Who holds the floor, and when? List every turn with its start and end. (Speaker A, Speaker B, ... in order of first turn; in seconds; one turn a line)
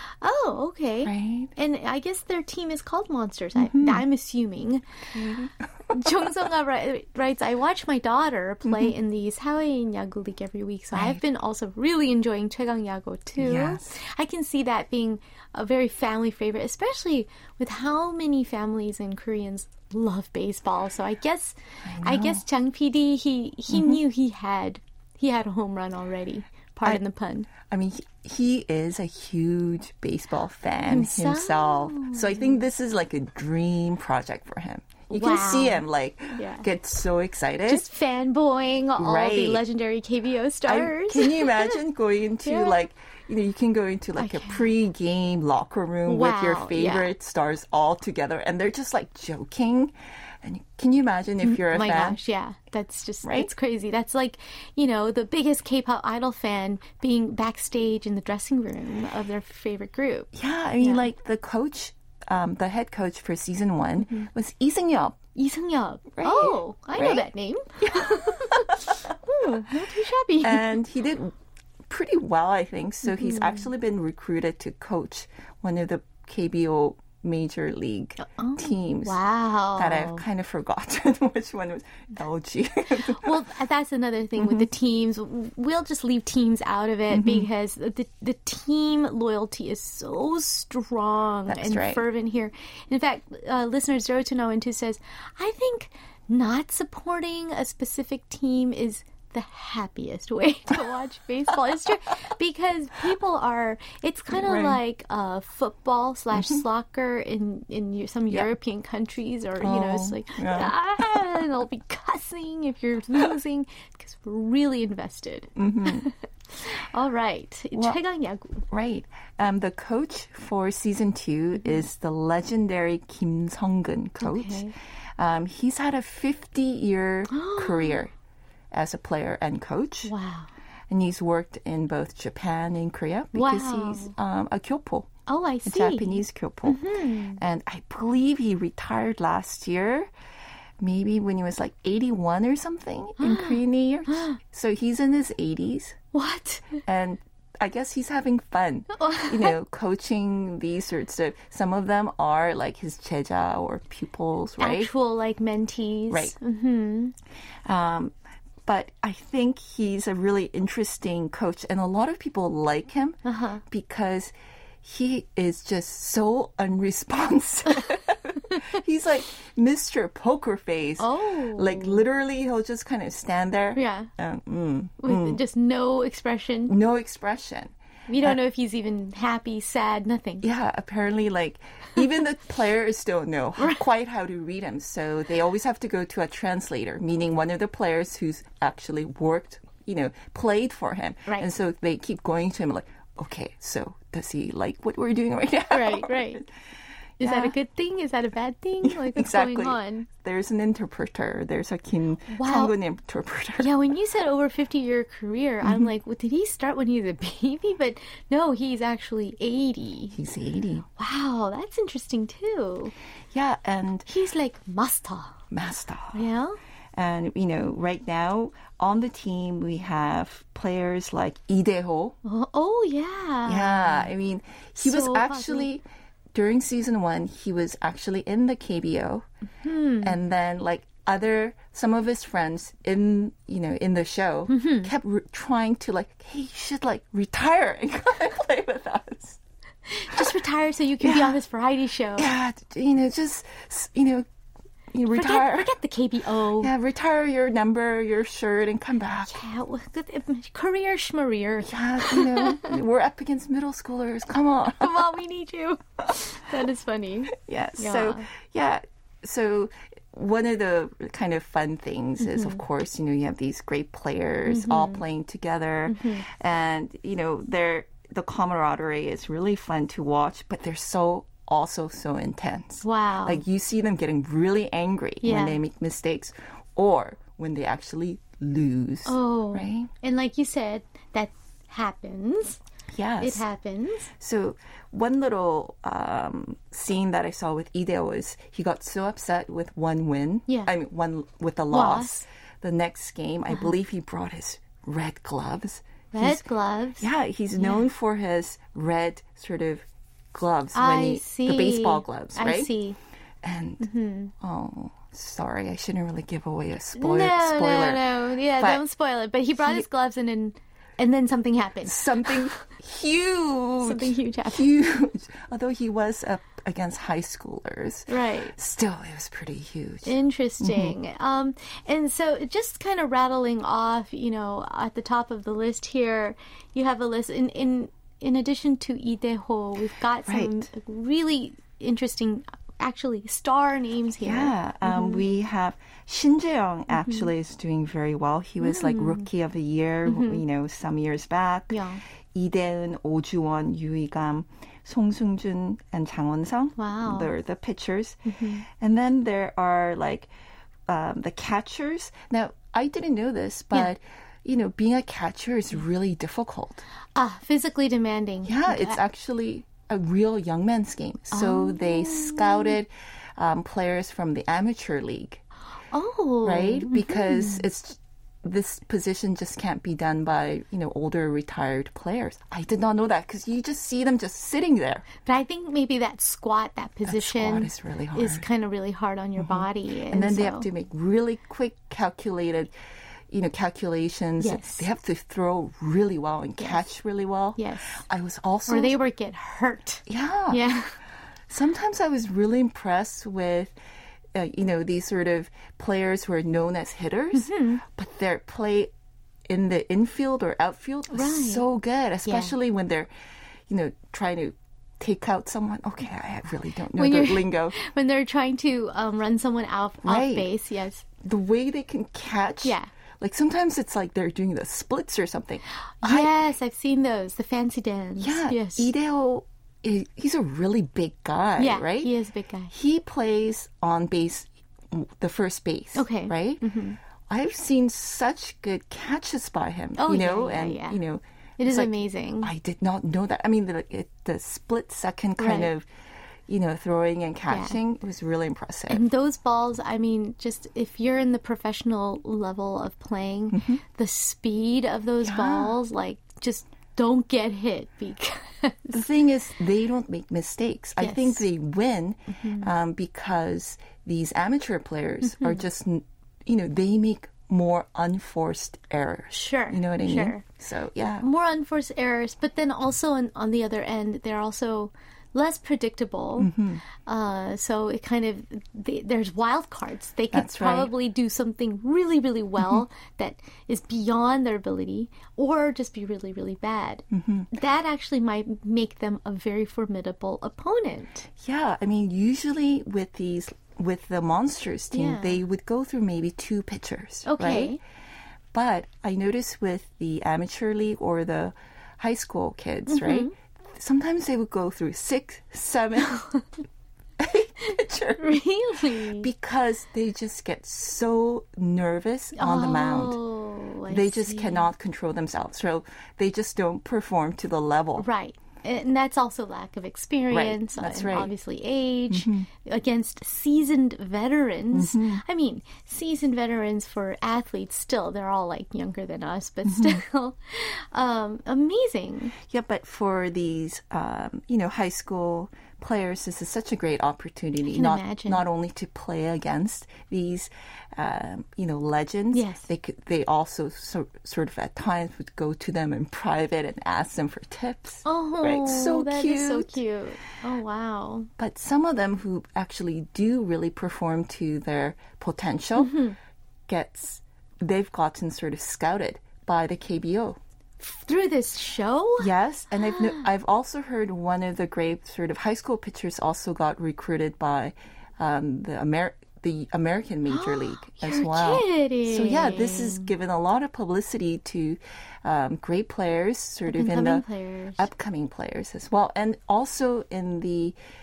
Speaker A: 0.2-5.4
Speaker B: 1.0-1.5
Speaker B: 3.6-4.0
Speaker B: 5.2-6.3
Speaker A: 5.9-27.5
Speaker B: 8.7-8.9
Speaker B: 10.9-11.2
Speaker B: 13.4-13.9
Speaker B: 21.9-22.4
Speaker B: 23.7-24.0
Speaker B: 27.6-37.8
Speaker A: 30.8-32.6
Speaker A: 35.1-36.6
Speaker A: 37.7-41.8
Speaker B: 39.0-39.6
Speaker B: 40.7-52.2
Speaker A: 42.4-42.9
Speaker A: 44.2-44.7
Speaker A: 46.0-47.1
Speaker A: 51.4-60.3
Speaker B: 53.2-53.5
Speaker B: 60.3-65.2
Speaker A: 64.0-64.3
Speaker A: 65.3-70.7
Speaker B: 66.1-67.2
Speaker B: 67.8-68.9
Speaker B: 70.4-71.3
Speaker B: 71.9-79.2
Speaker A: 73.0-73.7
Speaker A: 78.2-80.2
Speaker B: 79.8-83.3
Speaker A: 83.1-118.6
Speaker B: 84.4-84.7
Speaker B: 87.1-87.5
Speaker B: 91.5-92.0
Speaker B: 104.3-104.8
Speaker B: 109.6-111.3
Speaker B: 115.6-116.0
Speaker B: 118.7-128.1
Speaker A: 124.2-124.7
Speaker A: 127.3-128.0
Speaker B: 128.7-130.1
Speaker A: 130.0-130.5
Speaker B: 130.9-135.1
Speaker A: 133.3-134.1
Speaker A: 135.3-137.4
Speaker B: 135.7-136.8
Speaker B: 137.4-140.1
Speaker B: 140.8-146.0
Speaker A: 143.2-144.4
Speaker A: 146.1-146.8
Speaker B: 146.8-154.9
Speaker A: 148.9-149.5
Speaker A: 154.6-157.2
Speaker B: 156.1-156.3
Speaker B: 157.6-158.1
Speaker B: 158.7-175.4
Speaker A: 163.2-163.6
Speaker A: 171.0-172.0
Speaker A: 173.7-174.1
Speaker A: 175.0-176.7
Speaker B: 176.7-178.4
Speaker A: 178.1-180.4
Speaker B: 180.4-196.4
Speaker A: 195.7-196.4
Speaker B: 197.2-197.5
Speaker A: 197.2-200.1
Speaker B: 198.8-203.7
Speaker A: 202.3-202.7
Speaker A: 203.6-210.2
Speaker B: 210.1-210.8
Speaker A: 211.0-212.9
Speaker B: 213.3-214.1
Speaker A: 214.1-215.4
Speaker B: 215.5-216.2
Speaker A: 216.1-216.6
Speaker B: 216.9-222.2
Speaker A: 222.2-224.1
Speaker B: 223.4-225.8
Speaker A: 224.8-225.7
Speaker B: 226.3-229.2
Speaker A: 229.6-230.1
Speaker B: 230.0-239.4
Speaker A: 234.5-234.9
Speaker A: 239.9-242.3
Speaker B: 241.0-241.3
Speaker B: 242.2-244.2
Speaker B: 244.9-245.7
Speaker A: 245.1-246.7
Speaker B: 246.6-249.3
Speaker A: 249.3-252.7
Speaker B: 251.7-255.1
Speaker A: 254.8-258.3
Speaker B: 257.3-279.9
Speaker A: 262.2-262.6
Speaker A: 264.4-265.0
Speaker A: 265.9-266.2
Speaker A: 272.8-273.4
Speaker A: 275.2-275.6
Speaker A: 279.1-282.6
Speaker B: 282.9-283.4
Speaker A: 283.2-284.1
Speaker B: 284.2-296.4
Speaker A: 291.7-292.2
Speaker A: 296.1-297.1
Speaker B: 297.0-302.7
Speaker A: 297.6-297.8
Speaker A: 300.7-303.0
Speaker B: 303.4-303.9
Speaker A: 303.8-304.3
Speaker B: 304.4-308.8
Speaker A: 307.0-312.4
Speaker B: 311.9-320.9
Speaker A: 313.8-314.7
Speaker A: 318.1-318.5
Speaker A: 320.0-335.2
Speaker B: 330.3-330.6
Speaker B: 334.2-350.3
Speaker A: 336.9-337.3
Speaker A: 338.6-339.3
Speaker A: 340.1-340.4
Speaker A: 341.7-342.0
Speaker A: 346.8-347.3
Speaker A: 348.2-348.6
Speaker B: 350.9-356.8
Speaker A: 357.1-359.0
Speaker B: 358.5-365.4
Speaker A: 361.3-362.8
Speaker A: 365.9-367.6
Speaker B: 366.4-375.1
Speaker A: 375.2-380.6
Speaker B: 377.1-378.4
Speaker B: 379.4-382.7
Speaker B: 383.3-388.9
Speaker A: 384.4-384.9
Speaker A: 386.6-386.8
Speaker A: 387.6-388.0
Speaker A: 388.7-390.9
Speaker B: 390.1-390.6
Speaker B: 391.5-393.7
Speaker B: 394.3-398.9
Speaker A: 397.3-397.8
Speaker B: 399.5-403.1
Speaker A: 401.1-401.6
Speaker A: 402.2-402.6
Speaker B: 403.7-407.8
Speaker A: 407.0-411.0
Speaker B: 410.0-410.5
Speaker B: 411.2-416.3
Speaker A: 412.6-412.9
Speaker A: 416.0-418.9
Speaker B: 418.2-422.1
Speaker A: 421.6-422.7
Speaker B: 422.7-426.6
Speaker A: 425.9-427.0
Speaker B: 427.3-435.9
Speaker A: 430.0-431.0
Speaker A: 431.6-432.5
Speaker A: 435.4-435.7
Speaker B: 436.5-439.0
Speaker A: 437.5-437.8
Speaker A: 438.9-448.9
Speaker B: 443.5-443.8
Speaker B: 445.2-445.7
Speaker B: 448.9-461.2
Speaker A: 451.0-451.4
Speaker A: 452.3-452.7
Speaker A: 455.2-455.6
Speaker A: 459.3-460.4
Speaker A: 461.2-466.5
Speaker B: 466.4-466.8
Speaker A: 467.1-481.3
Speaker B: 470.3-470.9
Speaker B: 477.1-477.5
Speaker B: 481.4-487.8
Speaker A: 484.9-485.4
Speaker A: 487.2-487.8
Speaker B: 488.5-496.2
Speaker A: 492.9-493.3
Speaker A: 496.1-496.4
Speaker B: 497.2-498.3
Speaker A: 498.2-499.3
Speaker B: 499.2-503.2
Speaker A: 502.4-504.6
Speaker B: 503.9-508.1
Speaker A: 508.0-522.3
Speaker B: 510.3-511.3
Speaker B: 512.1-512.5
Speaker B: 514.7-515.2
Speaker B: 519.7-520.0
Speaker B: 522.5-539.8
Speaker A: 527.7-528.4
Speaker A: 532.3-532.7
Speaker A: 538.0-541.3
Speaker B: 541.4-546.0
Speaker A: 545.8-546.1
Speaker B: 546.7-550.4
Speaker A: 550.8-553.3
Speaker B: 552.2-567.2
Speaker A: 560.3-563.1
Speaker A: 566.7-567.9
Speaker B: 567.8-570.8